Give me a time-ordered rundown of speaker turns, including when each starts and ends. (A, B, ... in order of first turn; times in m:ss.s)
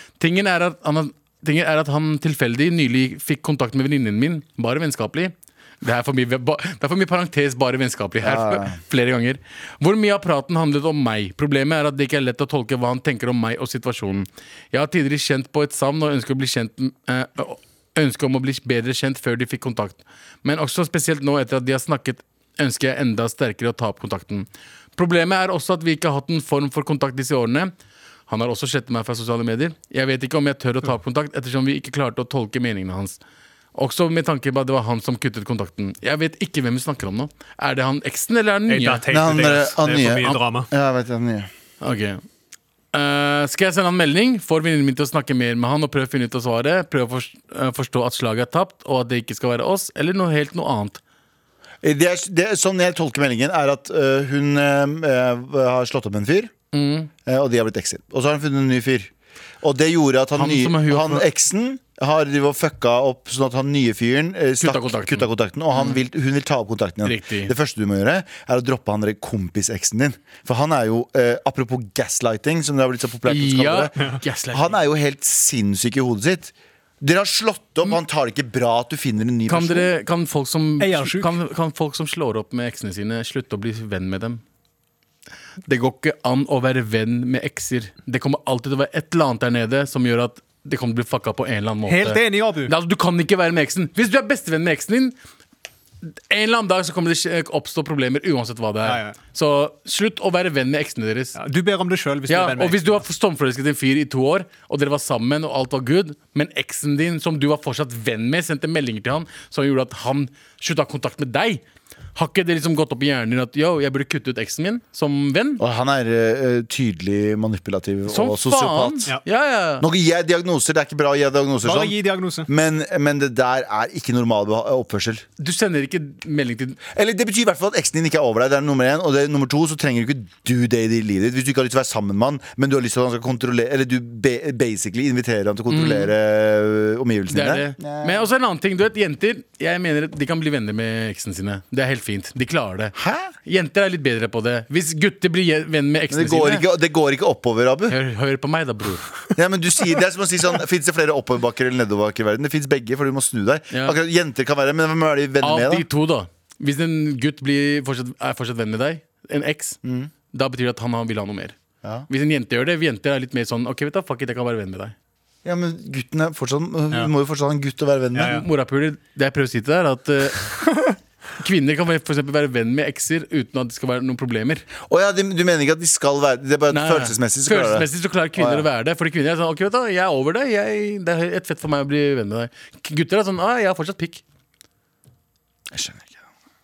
0:00.2-0:27.7 A
0:08.2-0:08.8 B
0:28.3-0:33.2 A
0:33.7-0:39.1 A
0:38.7-0:40.7 C
0:39.1-0:41.5 B
0:40.0-0:40.4 A
0:41.8-0:42.2 A
0:42.9-0:51.0 A
0:51.8-0:56.5 B
0:56.7-0:57.1 A
0:57.2-0:59.1 B
0:59.6-1:13.9 B
1:00.4-1:01.2 A
1:04.6-1:06.0 A
1:07.0-1:07.5 A
1:13.3-1:14.8 A
1:14.5-1:19.9 B
1:19.5-1:24.4 A
1:20.8-1:21.3 C
1:25.7-1:35.2 A
1:31.8-1:32.7 C
1:36.3-1:41.4 A
1:38.8-1:39.2 C
1:41.3-1:43.0 C
1:42.3-1:51.6 A
1:52.1-1:55.6 A
1:55.6-1:59.1 B
1:58.1-1:59.8 A
1:59.8-2:05.2 B
2:01.6-2:02.5 C
2:05.4-2:06.8 A
2:06.9-2:18.2 B
2:15.7-2:16.1 A
2:17.3-2:22.9 A
2:22.9-2:23.3 B
2:23.4-2:26.6 A
2:26.1-2:28.0 B
2:27.9-2:29.2 A
2:29.3-2:35.8 B
2:33.7-2:34.0 A
2:35.4-2:39.8 A
2:39.8-2:40.1 B
2:40.3-2:41.5 A
2:42.1-2:44.9 A
2:45.4-2:48.5 B
2:48.1-2:48.4 C
2:48.2-2:50.7 A
2:51.4-2:54.7 A
2:54.8-2:58.7 B
2:56.7-3:04.2 A
3:05.7-3:06.2 B